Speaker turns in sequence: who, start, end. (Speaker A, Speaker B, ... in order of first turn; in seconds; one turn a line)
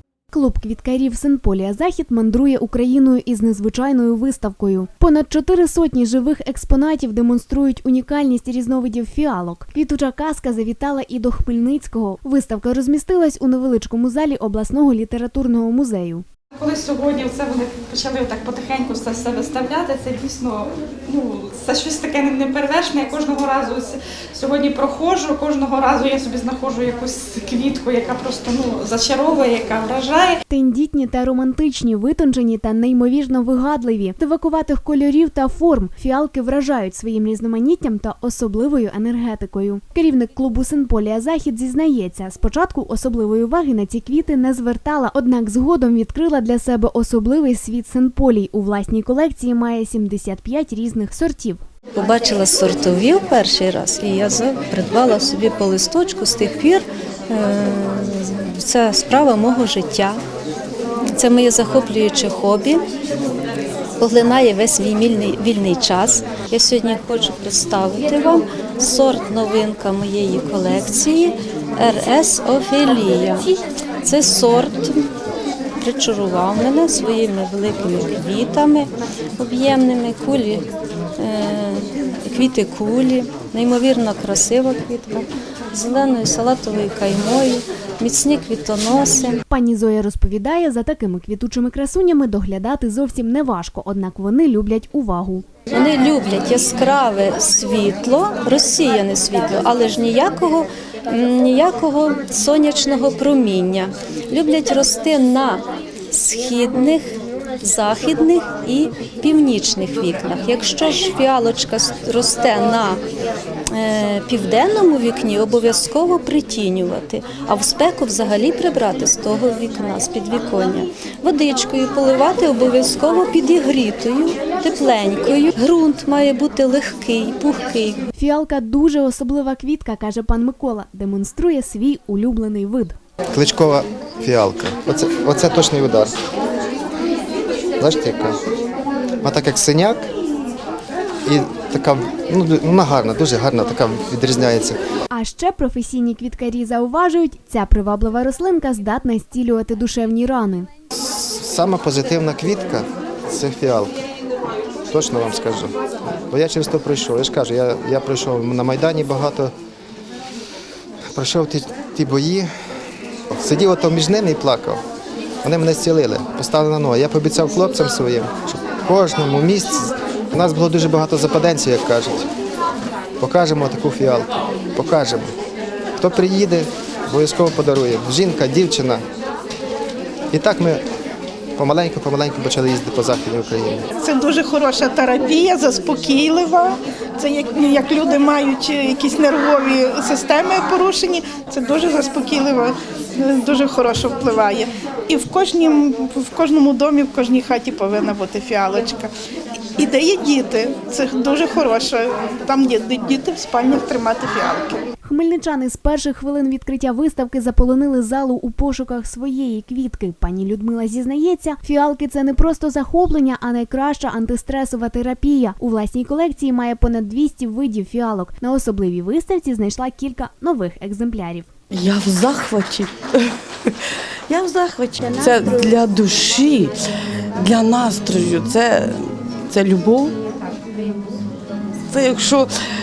Speaker A: 0.3-16.2
Speaker B: 16.6-30.4
Speaker A: 30.5-51.6
Speaker C: 51.9-60.2
Speaker C: 61.1-62.8
Speaker C: 64.0-73.5
Speaker C: 74.0-75.1
Speaker C: 75.8-80.7
Speaker C: 81.2-89.4
Speaker A: 89.5-95.5
Speaker C: 95.7-113.0
Speaker C: 113.7-128.0
Speaker A: 128.2-132.9
Speaker D: 133.3-136.1
Speaker D: 137.8-138.4
Speaker D: 139.2-140.1
Speaker D: 141.2-144.8
Speaker A: 145.1-150.7
Speaker D: 151.0-154.0
Speaker D: 154.9-155.7
Speaker D: 156.3-159.5
Speaker D: 161.1-162.5
Speaker D: 163.3-164.8
Speaker D: 165.4-172.3
Speaker D: 173.2-175.3
Speaker D: 176.0-179.0
Speaker D: 180.3-180.8
Speaker D: 181.6-183.8
Speaker E: 184.0-199.1
Speaker E: 199.8-204.8
Speaker A: 205.0-221.5
Speaker F: 221.7-226.7
Speaker F: 227.4-230.1
Speaker F: 231.9-232.5